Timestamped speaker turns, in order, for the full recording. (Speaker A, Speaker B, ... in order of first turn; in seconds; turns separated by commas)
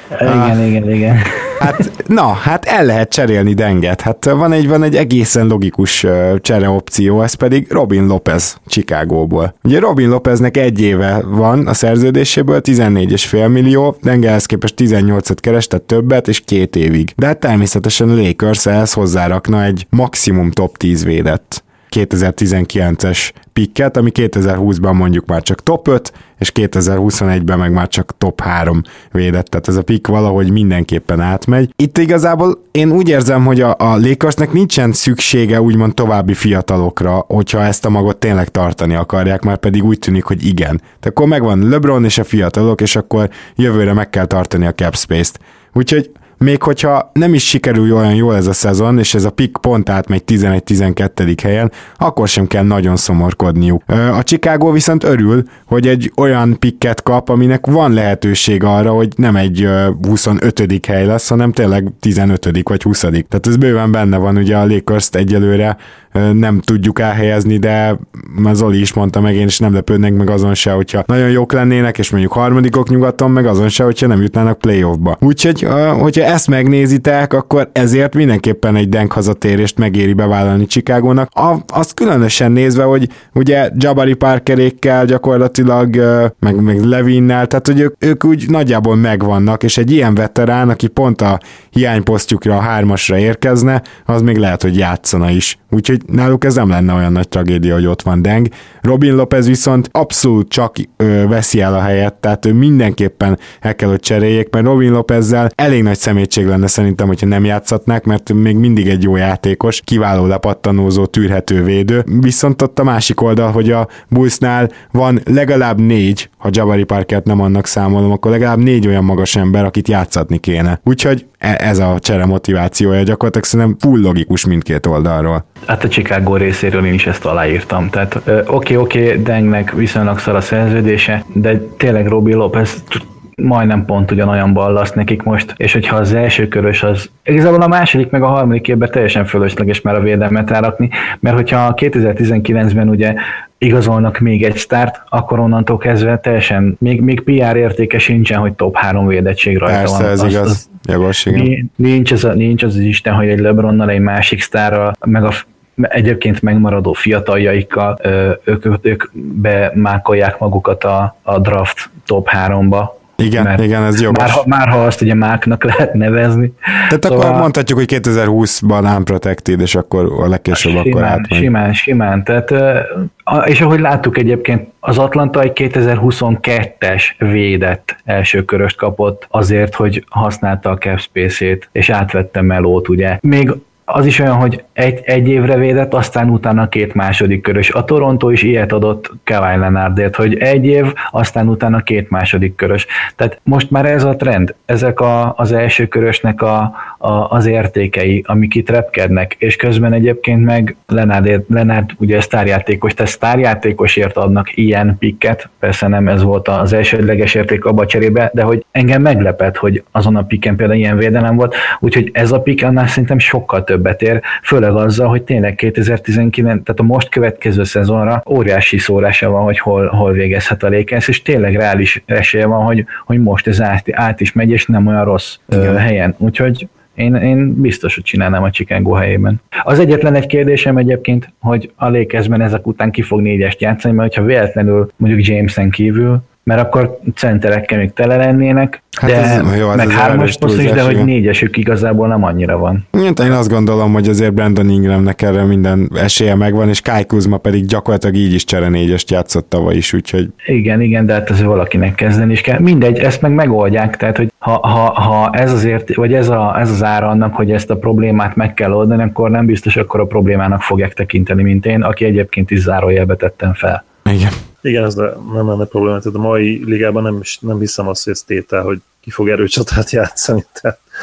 Speaker A: 0.1-1.8, Speaker B: 0.2-0.6, Speaker B: 1.6-125.4, Speaker A: 125.7-150.7, Speaker B: 149.7-151.5, Speaker A: 151.3-167.5, Speaker B: 163.2-164.4, Speaker B: 166.9-171.5, Speaker A: 170.5-242.9, Speaker B: 225.5-225.8, Speaker B: 239.0-241.1, Speaker B: 242.9-250.3, Speaker A: 250.5-263.9, Speaker B: 264.1-264.4, Speaker C: 264.6-270.8